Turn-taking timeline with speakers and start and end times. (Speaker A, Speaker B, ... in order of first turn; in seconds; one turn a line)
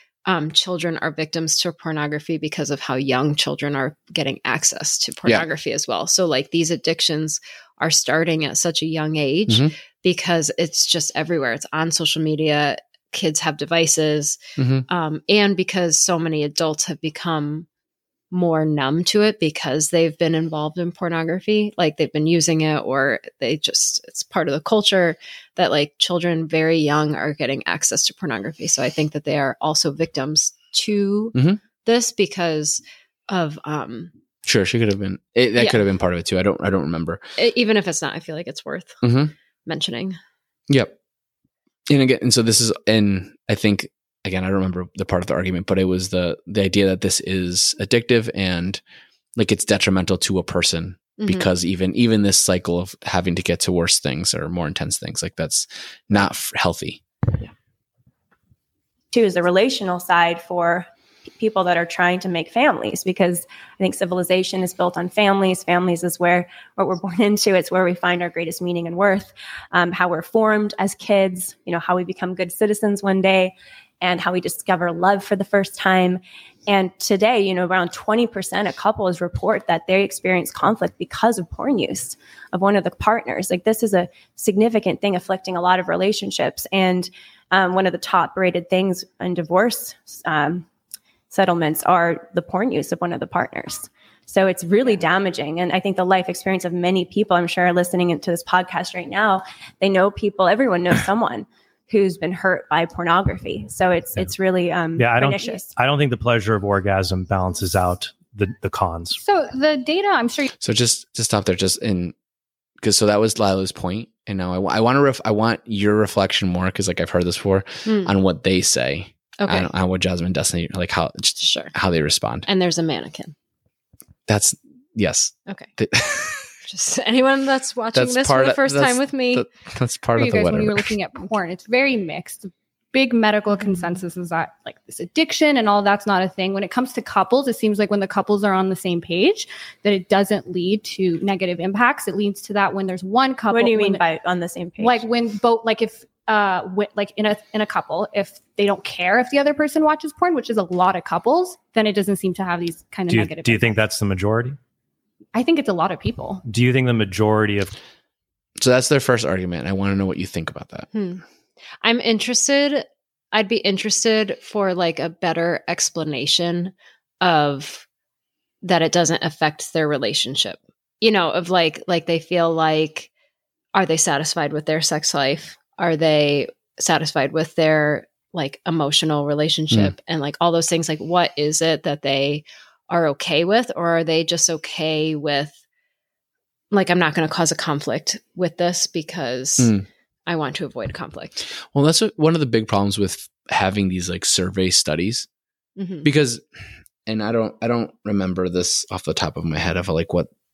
Speaker A: 0.2-17.7
Speaker B: 9.5-9.7
Speaker B: 14.6-14.8
Speaker A: 18.3-34.1
Speaker B: 31.3-31.6
Speaker B: 34.5-37.2
Speaker A: 35.6-35.8
Speaker A: 37.4-39.0
Speaker B: 39.0-39.3
Speaker A: 39.6-40.2
Speaker B: 40.7-40.9
Speaker B: 41.9-48.8
Speaker B: 49.4-57.0
Speaker A: 51.2-51.5
Speaker C: 59.1-90.7
Speaker C: 91.3-105.7
Speaker D: 105.0-109.2
Speaker E: 109.2-110.5
Speaker B: 110.6-112.1
Speaker B: 112.8-122.5
Speaker A: 117.8-118.1
Speaker A: 119.4-119.7
Speaker A: 121.4-121.7
Speaker A: 122.5-123.3
Speaker B: 124.3-126.5
Speaker A: 126.6-129.5
Speaker B: 127.9-130.9
Speaker E: 130.2-144.0
Speaker A: 133.5-134.0
Speaker C: 143.5-145.0
Speaker E: 144.8-153.8
Speaker D: 153.1-154.6
Speaker E: 155.3-156.4
Speaker D: 156.4-157.8
Speaker B: 158.6-160.9
Speaker A: 160.9-161.2
Speaker A: 161.8-167.8
Speaker A: 168.6-173.1
Speaker A: 173.7-185.6
Speaker A: 186.7-189.7
Speaker B: 189.6-189.8
Speaker A: 190.3-191.5
Speaker B: 191.7-195.3
Speaker A: 195.8-196.1
Speaker B: 196.0-196.4
Speaker B: 197.1-200.3